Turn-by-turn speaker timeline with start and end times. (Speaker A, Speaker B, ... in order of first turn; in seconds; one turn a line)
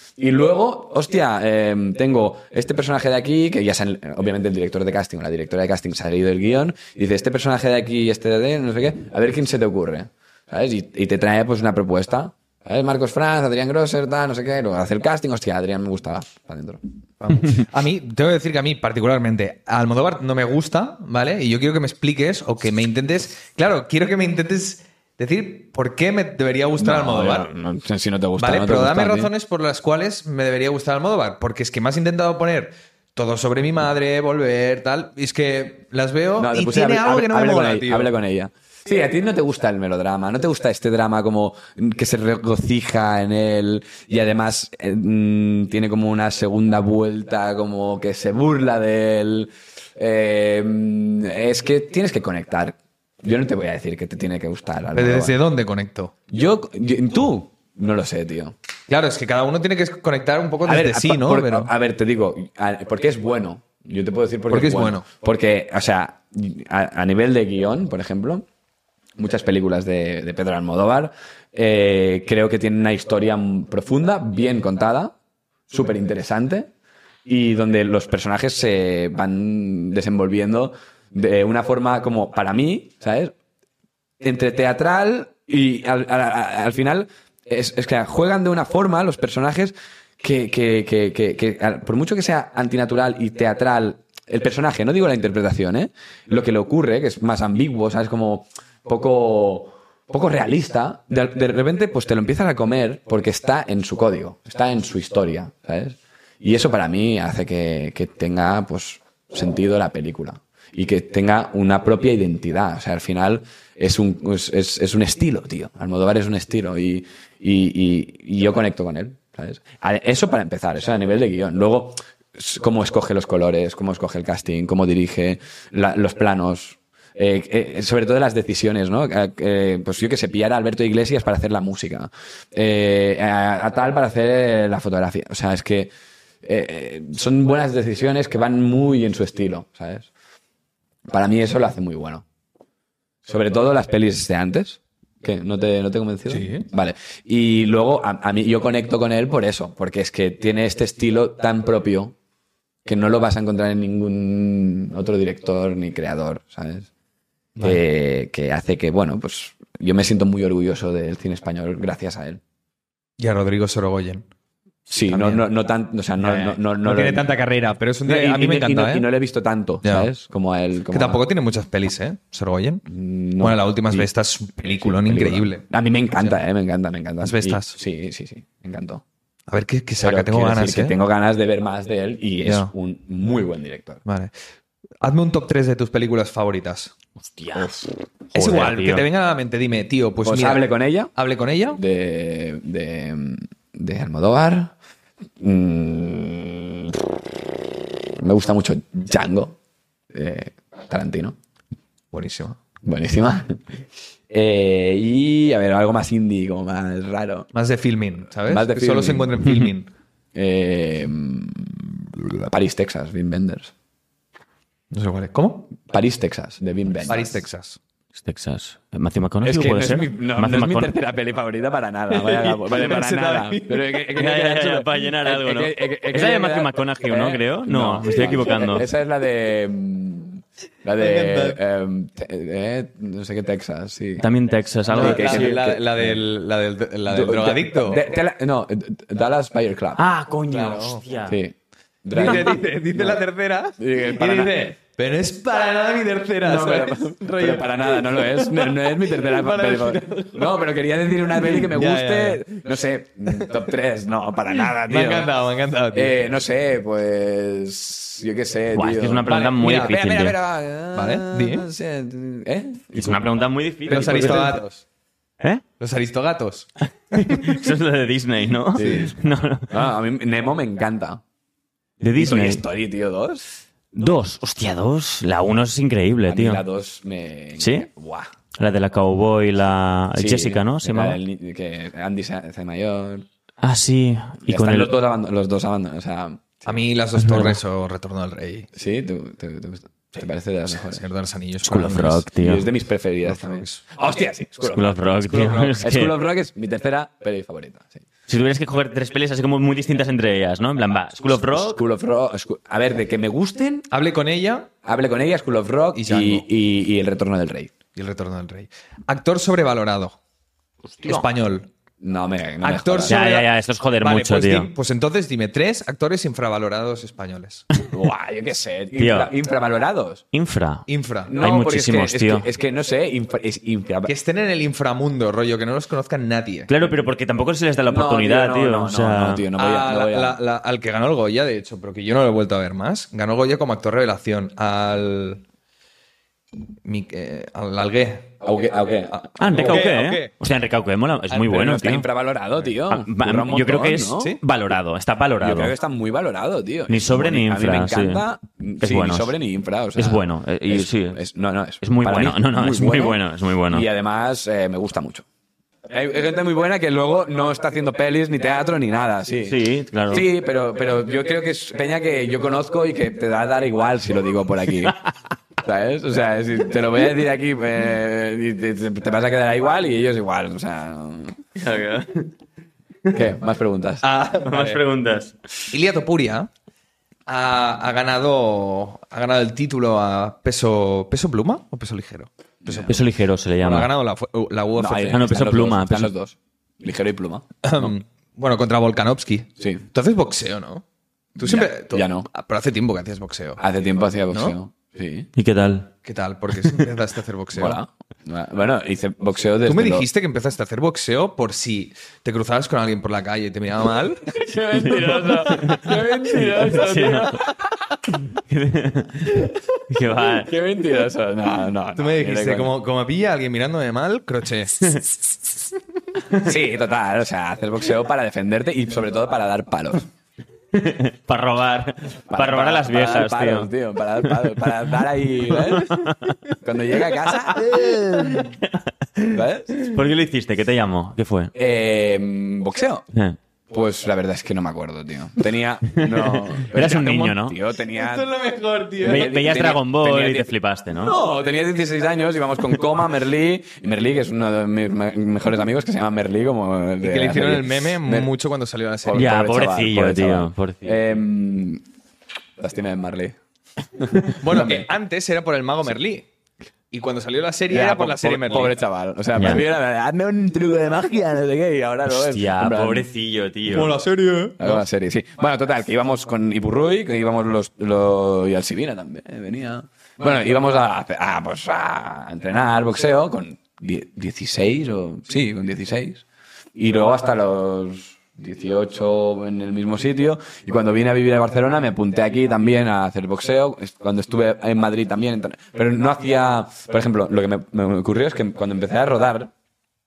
Speaker A: 0.2-16.8
Speaker B: 17.2-27.5
Speaker A: 26.8-29.3
Speaker B: 28.4-38.1
Speaker A: 36.4-55.4
Speaker B: 54.9-56.1
Speaker A: 56.3-58.5
Speaker B: 58.9-61.7
Speaker A: 60.6-68.5
Speaker B: 64.5-65.1
Speaker A: 69.2-75.1
Speaker A: 75.7-76.7
Speaker A: 77.3-83.3
Speaker A: 84.2-135.9
Speaker A: 136.4-140.1
Speaker A: 141.1-142.2
Speaker A: 143.3-152.2
Speaker B: 146.3-146.7
Speaker A: 152.8-156.9
Speaker A: 157.6-162.4
Speaker B: 163.2-164.3
Speaker A: 164.9-167.3
Speaker B: 165.1-165.5
Speaker B: 166.2-169.1
Speaker A: 168.1-171.2
Speaker B: 169.8-170.1
Speaker B: 170.9-172.9
Speaker A: 172.9-174.1
Speaker B: 173.4-175.6
Speaker A: 174.7-179.0
Speaker B: 177.2-177.8
Speaker B: 179.5-181.0
Speaker A: 180.0-184.0
Speaker B: 182.4-182.7
Speaker B: 184.1-184.3
Speaker B: 185.0-186.9
Speaker C: 187.2-189.1
Speaker A: 187.6-187.8
Speaker B: 188.3-191.8
Speaker A: 190.2-191.1
Speaker A: 191.8-194.7
Speaker A: 195.4-197.1
Speaker A: 198.2-199.6
Speaker A: 200.1-201.4
Speaker B: 202.1-202.6
Speaker A: 202.8-203.6
Speaker A: 204.3-207.5
Speaker B: 207.5-209.9
Speaker A: 208.5-209.4
Speaker A: 210.3-213.7
Speaker B: 214.9-215.7
Speaker A: 215.8-217.4
Speaker B: 217.1-217.8
Speaker C: 218.2-220.9
Speaker A: 219.4-234.3
Speaker B: 222.1-224.0
Speaker C: 224.2-228.9
Speaker B: 231.0-231.6
Speaker C: 234.2-235.6
Speaker A: 234.9-236.1
Speaker B: 234.9-238.0
Speaker A: 237.1-240.0
Speaker C: 240.0-241.4
Speaker B: 240.5-241.0
Speaker A: 241.3-243.2
Speaker B: 242.1-252.4
Speaker A: 243.8-244.7
Speaker A: 246.4-255.3
Speaker B: 254.9-256.2
Speaker A: 255.9-263.3
Speaker C: 258.7-260.4
Speaker B: 259.3-260.1
Speaker B: 260.9-261.7
Speaker C: 262.9-264.6
Speaker A: 263.9-264.6
Speaker B: 263.9-264.8
Speaker B: 265.8-267.6
Speaker C: 267.1-269.8
Speaker A: 268.8-269.1
Speaker B: 268.8-269.1
Speaker A: 269.7-271.2
Speaker C: 272.0-272.6
Speaker A: 272.2-273.5
Speaker C: 273.9-276.6
Speaker A: 276.3-278.3
Speaker C: 277.6-277.9
Speaker C: 278.6-281.2
Speaker A: 280.2-283.3
Speaker C: 283.6-284.9
Speaker A: 284.5-286.8
Speaker B: 286.7-288.7
Speaker C: 287.2-287.6
Speaker A: 288.7-291.0
Speaker B: 290.7-292.3
Speaker C: 291.6-292.7
Speaker A: 292.3-295.0
Speaker B: 293.2-293.8
Speaker C: 294.7-296.1
Speaker B: 295.2-295.9
Speaker A: 295.8-298.0
Speaker C: 298.3-301.8
Speaker A: 301.4-303.9
Speaker B: 303.9-304.7
Speaker A: 304.8-307.7
Speaker B: 305.9-306.5
Speaker B: 307.9-310.2
Speaker B: 311.0-311.7
Speaker A: 312.0-313.2
Speaker B: 312.6-313.5
Speaker C: 313.1-314.7
Speaker B: 314.0-317.7
Speaker A: 317.9-320.2
Speaker C: 319.0-319.3
Speaker C: 320.3-322.5
Speaker B: 320.9-321.4
Speaker A: 321.3-324.1
Speaker B: 324.1-326.7
Speaker C: 326.7-329.5
Speaker A: 327.9-330.4
Speaker B: 329.6-335.4
Speaker B: 336.8-338.4
Speaker A: 338.4-339.8
Speaker B: 339.1-340.3
Speaker C: 339.4-342.1
Speaker A: 341.5-344.4
Speaker C: 342.9-345.7
Speaker A: 345.4-355.2
Speaker C: 346.9-348.3
Speaker C: 348.8-349.3
Speaker C: 350.0-351.2
Speaker C: 351.8-353.9
Speaker A: 355.9-359.6
Speaker C: 359.4-360.3
Speaker A: 360.1-365.0
Speaker A: 365.6-371.4
Speaker C: 371.6-372.3
Speaker A: 373.1-374.0
Speaker B: 374.0-374.8
Speaker C: 374.4-375.4
Speaker B: 375.7-376.5
Speaker B: 377.3-383.0
Speaker A: 382.6-383.0
Speaker C: 382.9-383.9
Speaker B: 383.6-385.4
Speaker A: 384.8-387.5
Speaker C: 385.1-386.1
Speaker B: 387.6-390.8
Speaker B: 391.4-393.6
Speaker A: 391.4-392.3
Speaker A: 393.6-395.3
Speaker B: 394.3-394.6
Speaker C: 395.4-395.9
Speaker B: 396.0-397.8
Speaker A: 397.5-400.1
Speaker B: 399.6-404.4
Speaker A: 404.3-407.6
Speaker C: 404.9-407.4
Speaker C: 408.3-410.5
Speaker A: 410.2-412.7
Speaker B: 411.9-415.0
Speaker A: 416.4-420.1
Speaker C: 420.7-424.7
Speaker A: 422.3-427.8
Speaker C: 425.4-426.4
Speaker C: 427.6-431.5
Speaker B: 427.7-428.5
Speaker A: 429.3-429.9
Speaker A: 431.6-433.1
Speaker A: 433.7-438.4
Speaker C: 436.0-437.6
Speaker B: 437.9-439.4
Speaker A: 439.0-448.3
Speaker C: 439.0-441.2
Speaker B: 447.0-449.3
Speaker A: 449.1-451.8
Speaker C: 449.1-451.0
Speaker A: 452.6-453.4
Speaker A: 454.0-454.9
Speaker B: 454.4-456.3
Speaker B: 456.9-458.8
Speaker A: 457.7-463.1
Speaker C: 459.4-459.6
Speaker C: 462.1-464.0
Speaker B: 463.7-464.8
Speaker A: 464.6-476.2
Speaker A: 476.8-489.5